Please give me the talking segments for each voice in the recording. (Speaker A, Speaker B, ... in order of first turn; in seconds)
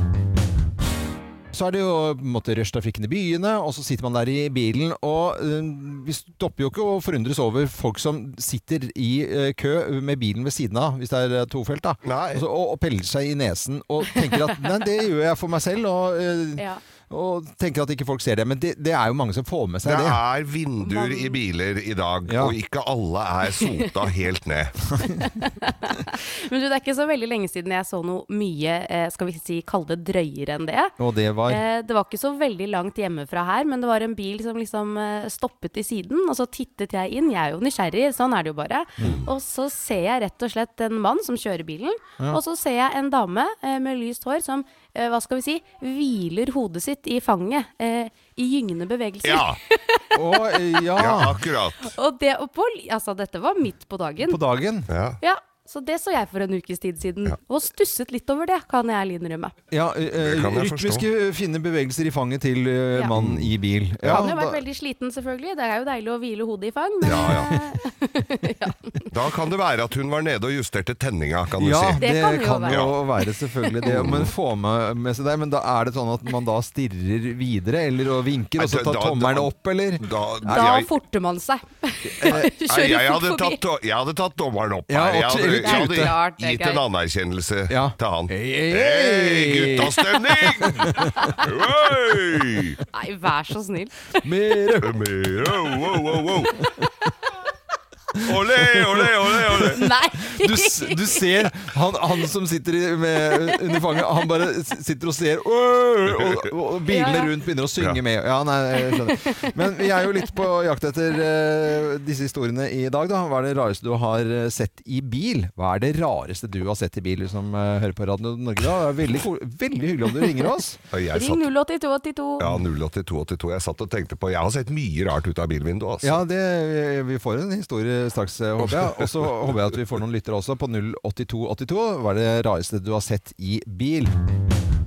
Speaker A: 1.5-20.2, 22.3-22.6, 31.0-31.6, 50.1-51.4, 54.2-54.9, 59.7-64.6, 67.2-67.5, 71.6-80.8, 82.1-82.5, 84.9-86.1, 87.7-91.1, 94.2-95.0, 98.5-120.8, 126.0-134.1
Speaker B: 12.0-12.4, 19.8-24.8, 49.2-49.6, 51.0-51.9, 54.9-55.2, 60.2-61.0, 63.1-64.2, 67.0-67.5, 69.1-72.0, 72.7-72.9, 73.9-74.3, 78.6-80.9, 82.3-92.8, 94.8-96.5, 98.2-99.8, 120.9-121.5, 122.4-126.2, 128.6-129.2
Speaker C: 20.8-21.4, 23.6-23.9, 25.0-30.9, 31.5-50.8, 51.9-54.4, 55.2-59.5, 64.1-69.0, 72.0-73.1, 73.6-73.9, 80.4-83.6, 85.6-86.8, 92.9-94.2, 99.7-101.3, 106.9-107.3, 108.9-109.5, 121.1-122.5